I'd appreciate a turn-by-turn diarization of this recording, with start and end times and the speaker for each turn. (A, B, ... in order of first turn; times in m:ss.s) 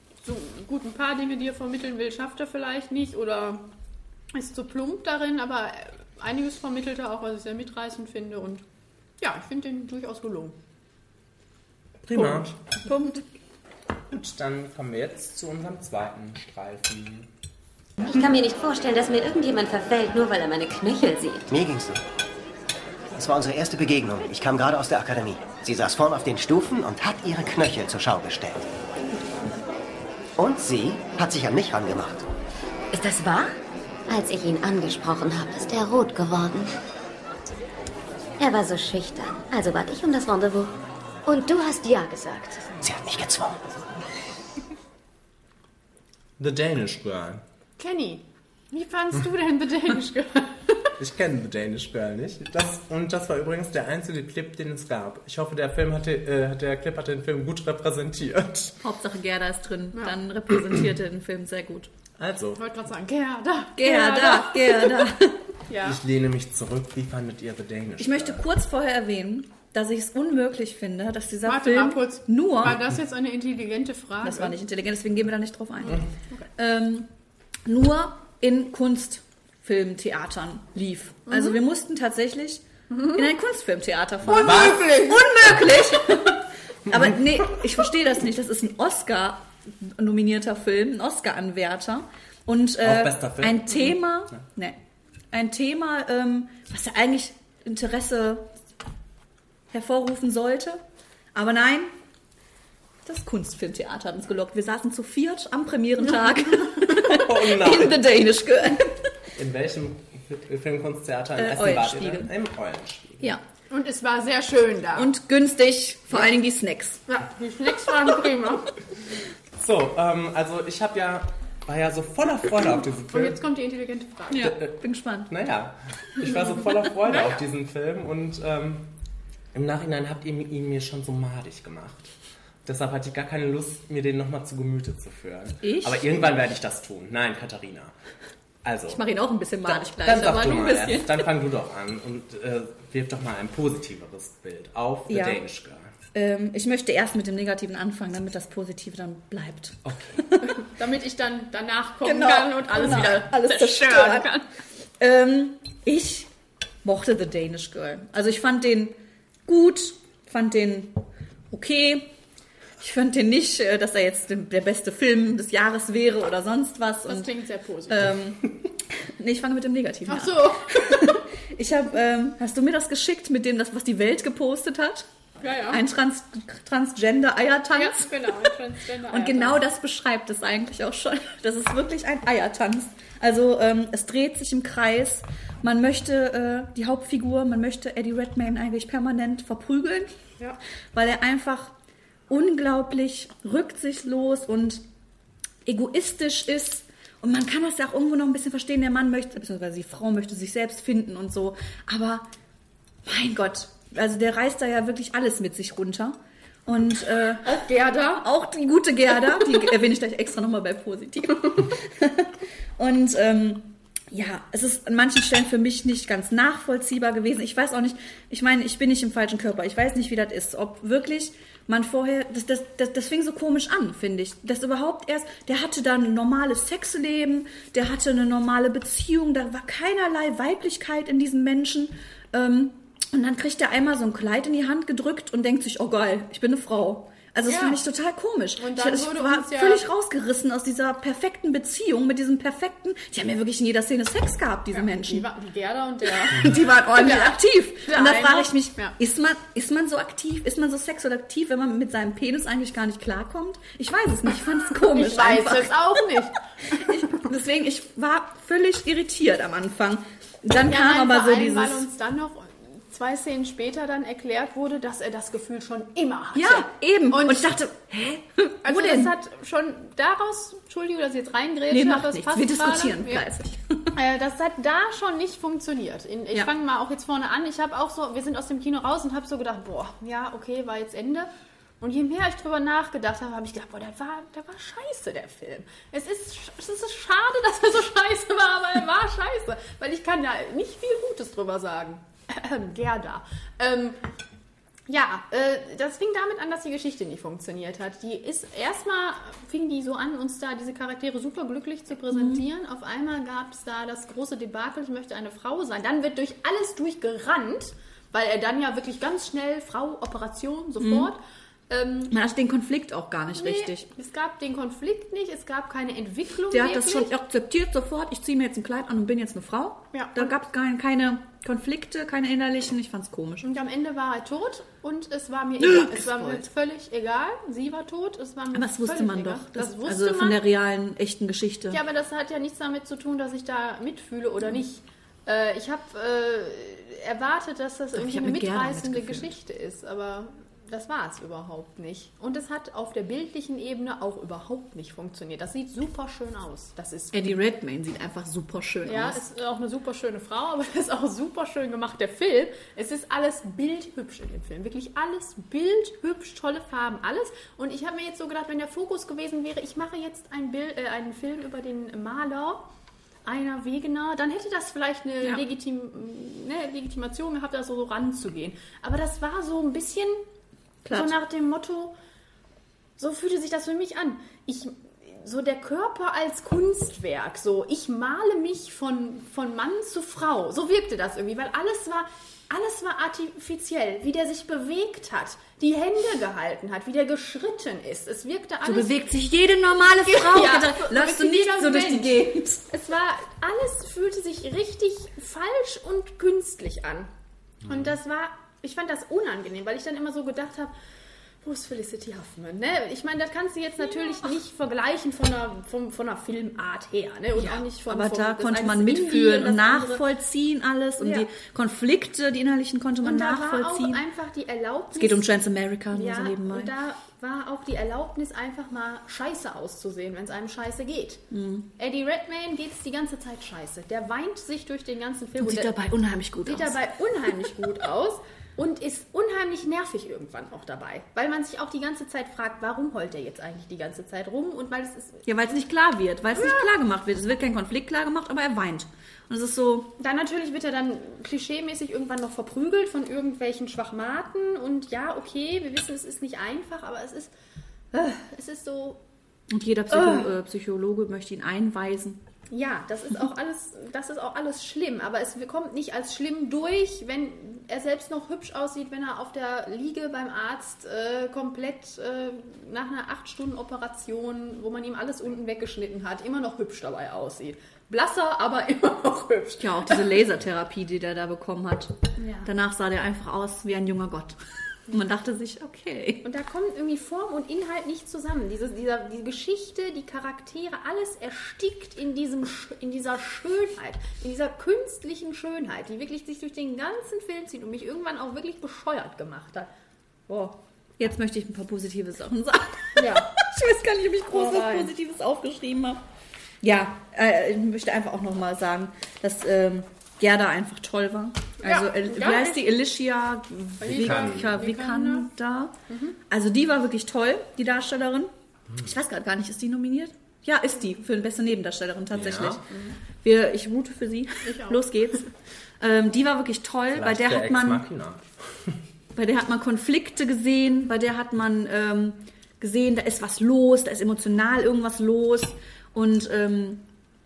0:00.2-0:03.6 A
0:04.3-0:08.6 A
0:09.2-0:10.6 A
0:12.0-0:12.6 B
0:12.8-0:13.2 C
0:14.1-0:17.3 B
0:18.0-0:21.5 D
0:21.5-0:22.0 E
0:23.1-0:28.7 E
0:30.4-0:32.2 E
0:32.9-0:33.5 D
0:34.1-0:36.7 D
0:38.4-0:40.7 D
0:41.2-0:42.9 D
0:46.4-0:47.4 B
0:47.8-0:50.9 A
0:51.0-0:58.8 B
0:58.8-1:01.9 C
1:02.2-1:02.6 B
1:02.6-1:05.1 A
1:03.8-1:05.4 C
1:05.7-1:06.0 A
1:05.8-1:08.4 B
1:08.0-1:12.8 C
1:11.4-1:14.5 A
1:14.2-1:16.0 C
1:15.8-1:16.5 A
1:16.6-1:17.1 C
1:17.6-1:34.8 C
1:21.3-1:21.6 A
1:22.9-1:23.2 A
1:24.2-1:25.7 A
1:24.3-1:24.9 B
1:26.9-1:27.5 B
1:32.8-1:34.4 B
1:35.3-1:38.5 C
1:39.7-1:40.8 C
1:41.3-1:41.9 C
1:43.0-1:49.0 C
1:46.2-1:46.8 A
1:47.1-1:48.0 B
1:49.4-1:53.4 B
1:51.4-1:52.3 C
1:53.7-1:55.1 A
1:55.0-1:57.0 C
1:57.1-1:58.8 A
1:59.6-2:03.4 B
2:03.1-2:04.5 A
2:04.3-2:05.3 C
2:04.4-2:04.7 B
2:05.3-2:08.9 B
2:07.0-2:07.4 A
2:09.5-2:12.1 B
2:12.6-2:17.9 B
2:15.6-2:16.2 C
2:18.6-2:19.0 B
2:18.9-2:21.3 C
2:19.6-2:25.9 B
2:25.1-2:25.4 C
2:26.1-2:30.6 C
2:29.8-2:30.2 B
2:30.6-2:34.4 A
2:32.0-2:34.3 C
2:32.8-2:33.2 B
2:35.0-2:36.3 C
2:36.8-2:38.9 C
2:39.5-2:42.1 C
2:42.8-2:47.3 C
2:47.1-2:48.1 A
2:47.9-2:55.1 C
2:50.1-2:51.1 A
2:55.4-2:55.8 A
2:55.7-2:58.3 C
2:57.7-2:59.6 A
2:59.1-3:10.1 C
3:10.9-3:11.7 C
3:12.3-3:14.8 C
3:15.6-3:22.3 C
3:23.0-3:27.6 C
3:27.4-3:28.2 A
3:28.2-4:05.2 C
3:57.4-3:57.8 A
3:58.6-3:59.8 A
4:04.7-4:08.9 A
4:06.2-4:16.0 C
4:14.7-4:17.2 A
4:16.6-4:21.8 C
4:20.6-4:27.6 A
4:26.3-4:29.1 C
4:28.6-4:33.3 A
4:31.7-4:33.9 C
4:33.9-4:41.3 A
4:41.8-4:54.0 A
4:54.9-5:11.2 A
5:02.1-5:02.4 C
5:10.8-5:11.1 C
5:11.7-5:12.1 A
5:12.1-5:13.8 C
5:13.3-5:17.1 A
5:16.5-5:23.4 C
5:19.9-5:20.4 A
5:23.4-5:30.4 A
5:25.6-5:26.5 C
5:28.5-5:31.8 C
5:31.7-5:47.5 A
5:37.9-5:39.3 C
5:47.1-5:49.2 C
5:48.8-6:02.6 A
6:03.2-6:10.2 A
6:10.8-6:11.1 C
6:10.9-6:11.9 A
6:13.0-6:29.1 A
6:28.6-6:32.7 C
6:30.0-6:37.1 A
6:37.6-6:40.7 A
6:41.4-6:50.0 A
6:47.4-6:54.0 C
6:51.0-6:51.3 A
6:53.0-7:01.2 A
6:55.0-6:56.7 C
7:01.3-7:01.7 C
7:01.8-7:05.8 A
7:05.4-7:06.8 C
7:06.4-7:15.2 A
7:15.2-7:19.9 C
7:16.3-7:16.7 A
7:20.0-7:27.3 A
7:27.9-7:29.0 A
7:29.5-7:32.2 C
7:29.9-7:30.3 A
7:32.5-7:50.2 A
7:49.6-7:51.9 C
7:52.2-7:52.5 A
7:52.4-7:54.4 C
7:54.9-7:56.2 C
7:56.2-8:09.7 A
8:10.3-8:16.0 C
8:13.0-8:13.3 A
8:14.3-8:14.9 A
8:16.6-8:25.7 C
8:21.6-8:22.7 A
8:23.8-8:24.5 B
8:23.8-8:25.3 A
8:25.9-8:26.2 A
8:26.3-8:32.7 C
8:32.1-8:32.6 B
8:32.7-8:33.0 A
8:33.2-8:37.8 C
8:34.4-8:35.3 A
8:36.9-8:38.8 B
8:39.1-8:46.8 C